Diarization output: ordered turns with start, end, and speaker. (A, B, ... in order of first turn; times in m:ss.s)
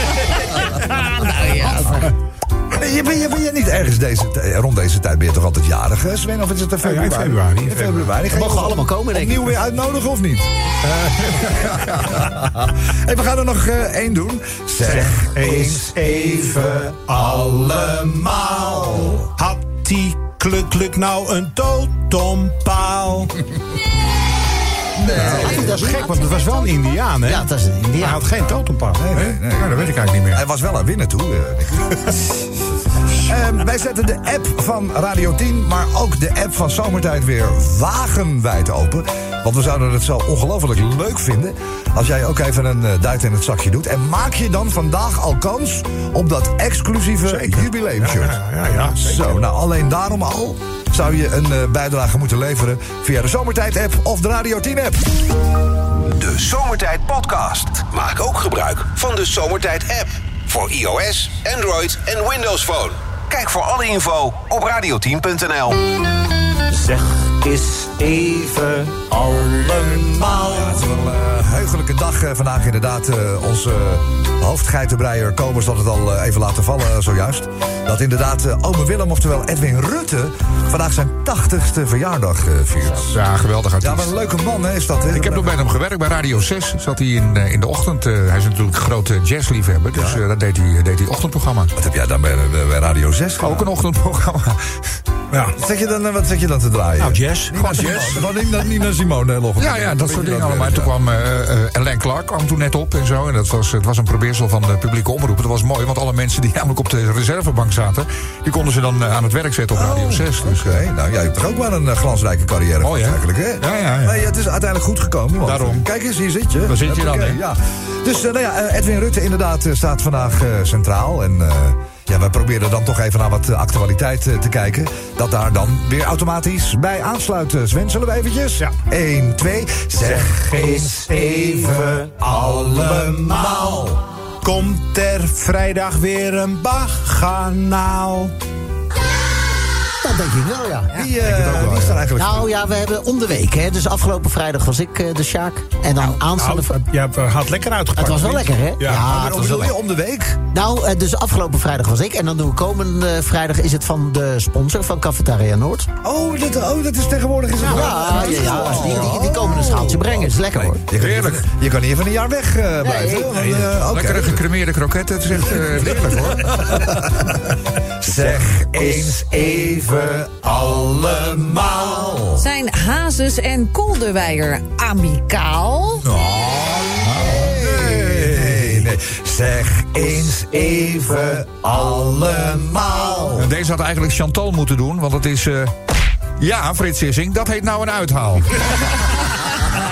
0:00.2-0:02.1 A
0:01.6-0:02.0 B
0:02.7-0:15.5 C
0:06.8-0:08.2 D
0:08.3-0:09.6 B
0:14.8-0:16.8 D
0:15.3-0:19.2 B
0:18.7-0:19.1 C
0:19.3-0:23.3 D
0:25.0-0:25.8 C
0:25.1-0:26.0 B
0:25.1-0:29.0 D
0:25.4-0:27.0 A
0:27.2-0:28.3 B
0:28.9-0:32.1 C
0:29.1-0:30.4 E
0:33.1-0:55.1 C
0:47.2-0:49.4 D
0:56.0-1:05.8 F
1:06.7-1:10.7 B
1:10.4-1:23.2 C
1:23.1-1:24.1 E
1:23.8-1:25.6 C
1:25.0-1:31.7 E
1:29.9-1:30.2 C
1:31.7-1:33.7 C
1:33.4-1:34.6 E
1:35.3-1:35.6 D
1:35.6-1:40.9 C
1:37.0-1:38.2 D
1:37.7-1:38.1 E
1:39.6-1:50.8 E
1:49.7-2:14.0 C
1:52.8-1:54.2 E
1:55.4-1:55.8 E
1:56.6-1:57.4 E
2:10.4-2:13.8 B
2:14.4-2:18.3 D
2:20.0-2:20.9 B
2:20.9-2:22.5 C
2:21.2-2:22.0 E
2:22.2-2:26.8 B
2:26.3-2:29.1 D
2:28.0-2:29.7 B
2:28.9-2:30.4 C
2:30.5-2:35.9 B
2:36.0-2:44.4 C
2:37.6-2:40.8 B
2:37.6-2:37.9 D
2:40.9-2:41.4 E
2:42.8-2:43.4 B
2:43.7-2:46.7 E
2:45.7-2:52.4 C
2:48.2-2:49.2 B
2:52.3-2:56.1 A
2:56.0-3:03.5 C
2:57.5-2:58.9 D
3:03.4-3:05.7 E
3:06.4-3:09.1 E